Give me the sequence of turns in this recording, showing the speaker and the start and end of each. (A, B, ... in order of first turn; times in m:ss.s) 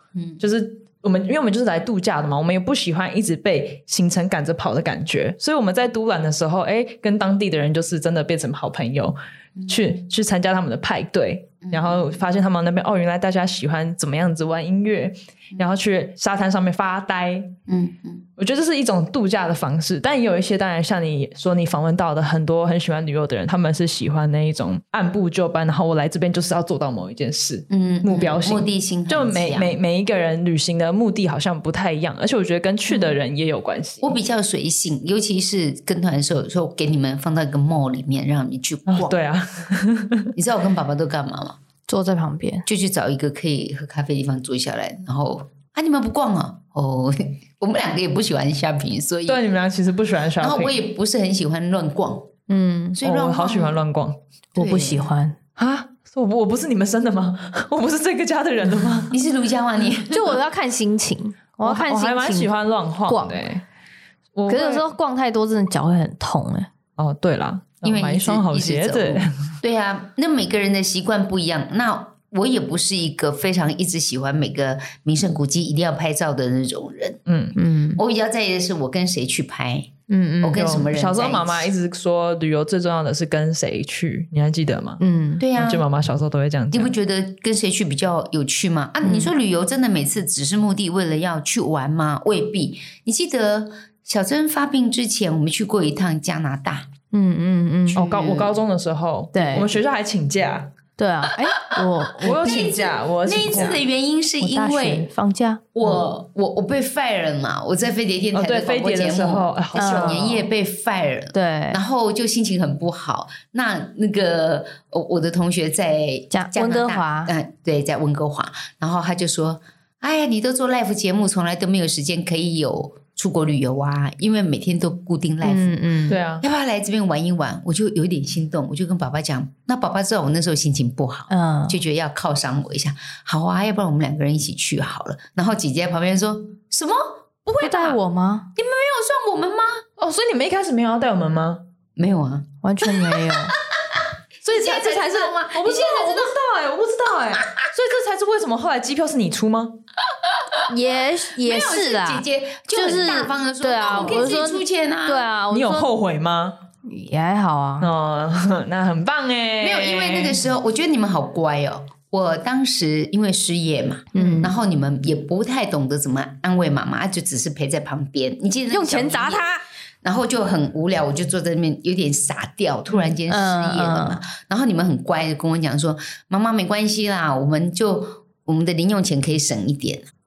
0:00.4-0:17.6 A
0:11.6-0:12.2 B
0:17.7-0:18.2 B
0:18.4-0:34.1 A
0:27.7-0:29.8 B
0:34.0-0:39.1 B
0:38.9-0:40.3 A
0:40.3-0:41.6 B
0:41.9-0:42.7 C
0:42.6-0:49.4 B
0:49.3-0:50.8 A
0:50.4-0:52.3 B
0:52.5-0:53.0 C
0:53.0-0:54.2 A
0:53.0-0:53.8 B
0:54.6-0:55.4 C
0:54.6-0:55.1 B
0:55.6-0:59.2 A
0:59.1-1:00.4 B
1:00.1-1:02.5 C
1:01.6-1:03.6 A
1:03.1-1:03.4 C
1:04.3-1:04.8 A
1:04.5-1:06.7 C
1:07.0-1:09.6 A
1:07.8-1:17.2 B
1:17.2-1:17.6 A
1:17.6-1:18.0 C
1:18.0-1:19.9 B
1:20.1-1:20.7 C
1:20.4-1:21.7 B
1:20.5-1:25.0 A
1:25.0-1:25.4 C
1:25.4-1:25.8 B
1:25.5-1:26.9 A
1:26.7-1:36.9 B
1:29.0-1:29.3 C
1:37.1-1:38.0 C
1:37.9-1:38.6 B
1:37.9-1:40.7 A
1:39.3-1:39.7 C
1:41.0-1:42.8 C
1:41.6-1:45.1 B
1:42.2-1:43.8 A
1:44.4-1:45.6 C
1:45.7-2:05.9 B
1:48.3-1:50.4 A
1:49.8-1:50.4 C
1:51.3-1:51.8 C
1:56.3-1:57.3 C
2:05.4-2:06.2 C
2:06.1-2:06.4 A
2:06.4-2:18.0 B
2:11.3-2:11.8 C
2:17.6-2:18.5 C
2:18.5-2:19.8 B
2:20.0-2:21.6 A
2:22.0-2:22.4 B
2:22.6-2:23.6 C
2:23.0-2:23.4 B
2:24.4-2:26.3 B
2:24.4-2:29.8 A
2:30.7-2:35.9 C
2:31.4-2:35.3 B
2:34.0-2:34.2 A
2:35.5-2:36.6 A
2:36.8-2:37.9 C
2:37.8-2:40.4 A
2:39.6-2:49.4 B
2:44.1-2:44.5 C
2:48.7-2:49.6 C
2:50.0-3:00.1 B
2:53.3-2:54.2 C